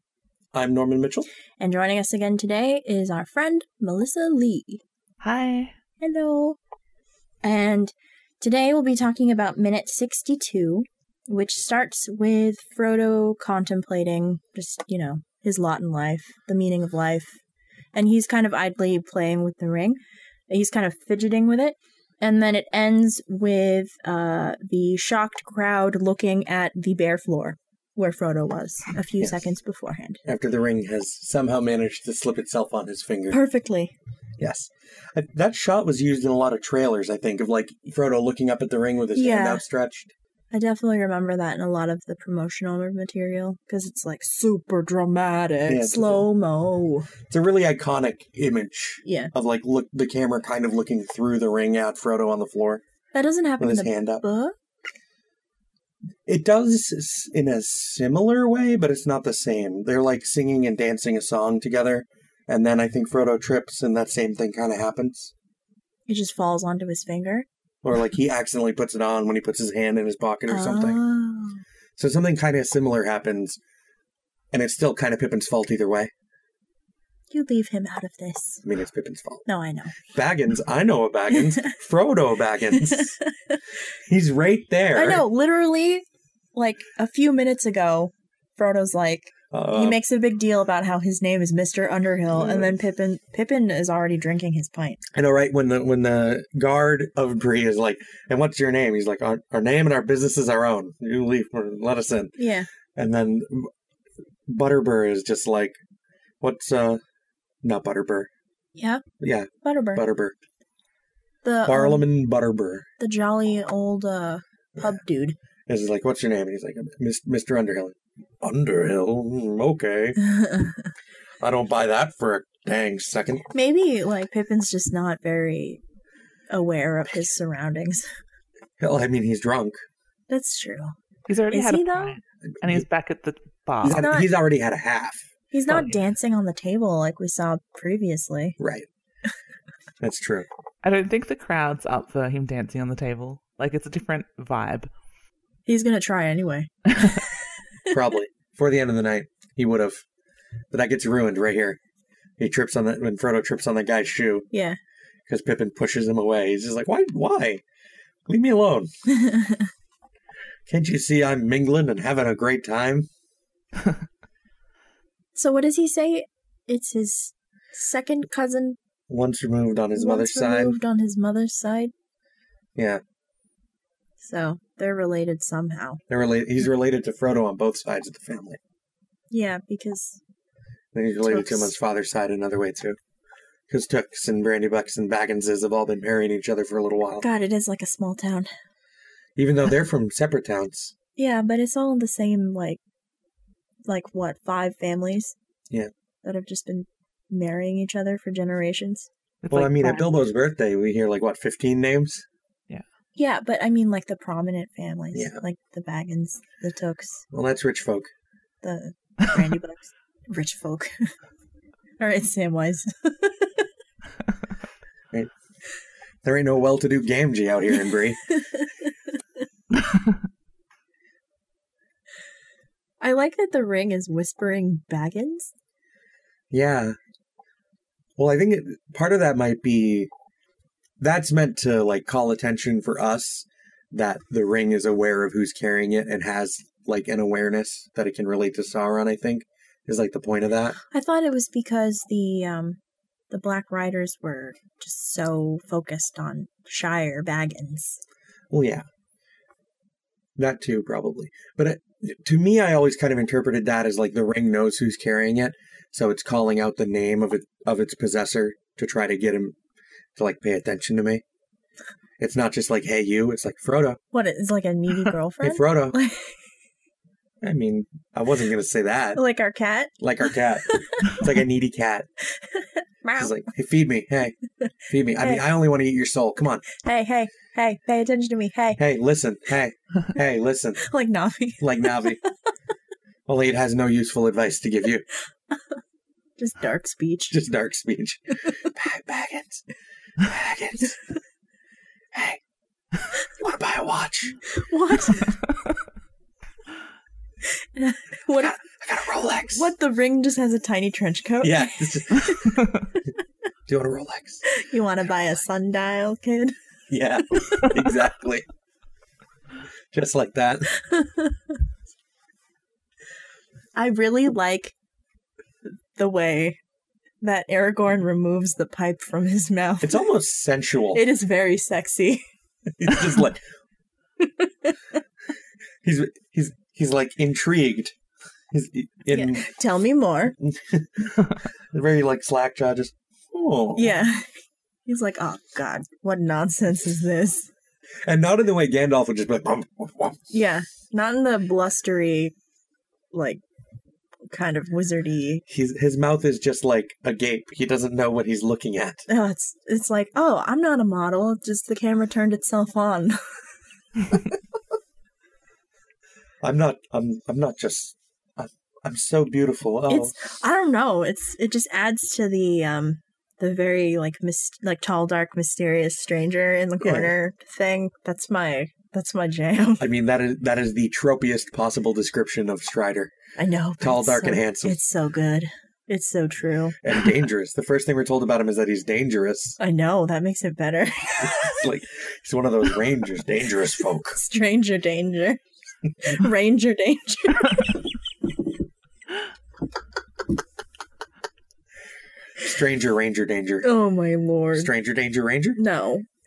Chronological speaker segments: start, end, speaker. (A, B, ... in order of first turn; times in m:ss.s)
0:00.5-0:01.3 A
0:01.6-0:04.8 B
0:05.2-0:05.7 C
0:06.0-0:06.6 B
0:07.4-0:17.4 B
0:17.9-0:30.2 B
0:30.2-0:33.4 A
0:33.3-0:34.0 B
0:34.4-0:40.1 A
0:39.2-0:39.6 B
0:40.5-0:47.1 B
0:45.7-0:46.3 A
0:47.3-0:52.8 A
0:49.0-0:49.3 B
0:53.1-0:54.6 B
0:53.6-0:54.2 A
0:56.3-1:05.3 A
1:06.1-1:07.5 B
1:07.8-1:11.0 A
1:10.5-1:11.6 B
1:12.0-1:13.6 A
1:14.5-1:16.1 A
1:17.3-1:18.6 B
1:18.6-1:19.4 A
1:19.5-1:20.0 B
1:20.1-1:23.2 A
1:21.3-1:21.7 B
1:22.8-1:23.6 B
1:24.1-1:25.3 A
1:24.9-1:35.0 B
1:29.5-1:30.0 A
1:32.3-1:32.8 A
1:35.1-1:42.4 A
1:42.4-1:42.7 B
1:43.0-1:43.7 A
1:44.5-1:45.8 A
1:46.4-1:47.0 A
1:47.6-1:48.3 A
1:48.8-1:49.0 B
1:49.2-1:50.4 A
1:49.6-1:50.0 B
1:51.4-1:52.1 B
1:51.7-1:52.9 A
1:53.0-1:55.4 B
1:55.7-2:00.2 A
2:00.2-2:00.9 B
2:01.4-2:03.5 A
2:03.5-2:05.8 B
2:06.5-2:08.0 B
2:08.8-2:09.8 A
2:10.3-2:10.9 B
2:11.3-2:14.1 C
2:11.5-2:12.2 B
2:12.5-2:12.8 A
2:13.8-2:14.3 B
2:13.8-2:15.3 A
2:15.5-2:18.6 B
2:18.6-2:18.9 A
2:20.0-2:20.5 A
2:20.8-2:24.9 C
2:25.7-2:27.4 B
2:27.9-2:30.0 A
2:30.7-2:31.8 A
2:32.4-2:34.5 A
2:34.5-2:34.8 B
2:35.3-2:37.6 A
2:38.3-2:38.9 A
2:39.1-2:39.7 B
2:40.7-2:43.1 A
2:45.4-2:48.8 B
2:49.1-2:50.8 A
2:50.0-2:51.9 B
2:52.8-2:53.0 A
2:54.2-2:56.0 B
2:56.1-2:58.6 A
2:59.3-3:00.2 B
3:00.9-3:03.0 A
3:01.2-3:01.8 B
3:03.7-3:07.3 A
3:07.2-3:08.5 B
3:09.4-3:10.9 A
3:11.2-3:12.8 B
3:13.9-3:15.4 B
3:16.2-3:19.1 B
3:19.4-3:20.1 C
3:19.5-3:22.2 A
3:23.2-3:27.2 B
3:25.1-3:25.4 A
3:27.3-3:28.1 A
3:28.6-3:31.1 B
3:32.0-3:33.7 B
3:36.2-3:38.3 A
3:38.4-3:38.9 B
3:43.0-3:45.5 B
3:46.5-3:47.0 A
3:48.2-3:50.1 A
3:51.0-4:00.8 A
4:00.9-4:02.8 B
4:03.3-4:08.0 B
4:08.5-4:08.8 A
4:10.4-4:19.6 A
4:20.2-4:21.2 A
4:22.2-4:24.0 A
4:24.1-4:26.4 B
4:25.4-4:26.0 A
4:27.4-4:29.2 A
4:29.2-4:29.9 B
4:30.0-4:32.1 A
4:30.6-4:31.2 B
4:32.4-4:33.4 B
4:33.2-4:34.4 A
4:34.9-4:36.6 A
4:36.8-4:38.8 B
4:38.8-4:40.8 A
4:40.8-4:42.1 B
4:41.6-4:42.2 A
4:43.3-4:45.0 A
4:46.4-4:47.4 B
4:47.3-4:49.6 A
4:50.2-4:51.0 A
4:52.1-4:52.4 A
4:53.2-4:54.4 A
4:54.5-4:55.4 B
4:57.8-4:58.6 B
4:58.3-4:59.7 A
4:59.5-5:02.8 B
5:01.4-5:02.6 A
5:03.7-5:04.4 A
5:04.4-5:06.6 B
5:06.9-5:08.5 A
5:09.9-5:10.7 A
5:10.8-5:11.4 B
5:13.8-5:14.8 B
5:16.0-5:16.6 B
5:17.2-5:20.0 B
5:19.8-5:21.0 A
5:20.9-5:22.2 B
5:22.8-5:23.4 A
5:22.9-5:23.2 B
5:24.2-5:24.8 B
5:25.8-5:28.0 A
5:28.5-5:29.5 A
5:29.1-5:30.4 B
5:30.4-5:34.0 A
5:33.8-5:34.3 B
5:34.9-5:37.5 B
5:38.0-5:40.3 A
5:40.3-5:42.3 B
5:43.1-5:43.4 B
5:44.3-5:45.4 B
5:45.5-5:49.1 A
5:49.1-5:53.2 B
5:56.4-6:00.2 A
5:59.9-6:09.9 B
6:06.8-6:07.1 A
6:09.8-6:13.1 A
6:13.4-6:16.8 B
6:13.8-6:14.8 A
6:16.8-6:19.6 A
6:19.6-6:21.7 B
6:21.2-6:24.2 A
6:24.1-6:25.4 B
6:26.0-6:27.9 B
6:32.4-6:33.7 A
6:33.6-6:34.7 B
6:34.5-6:35.6 A
6:35.6-6:36.0 B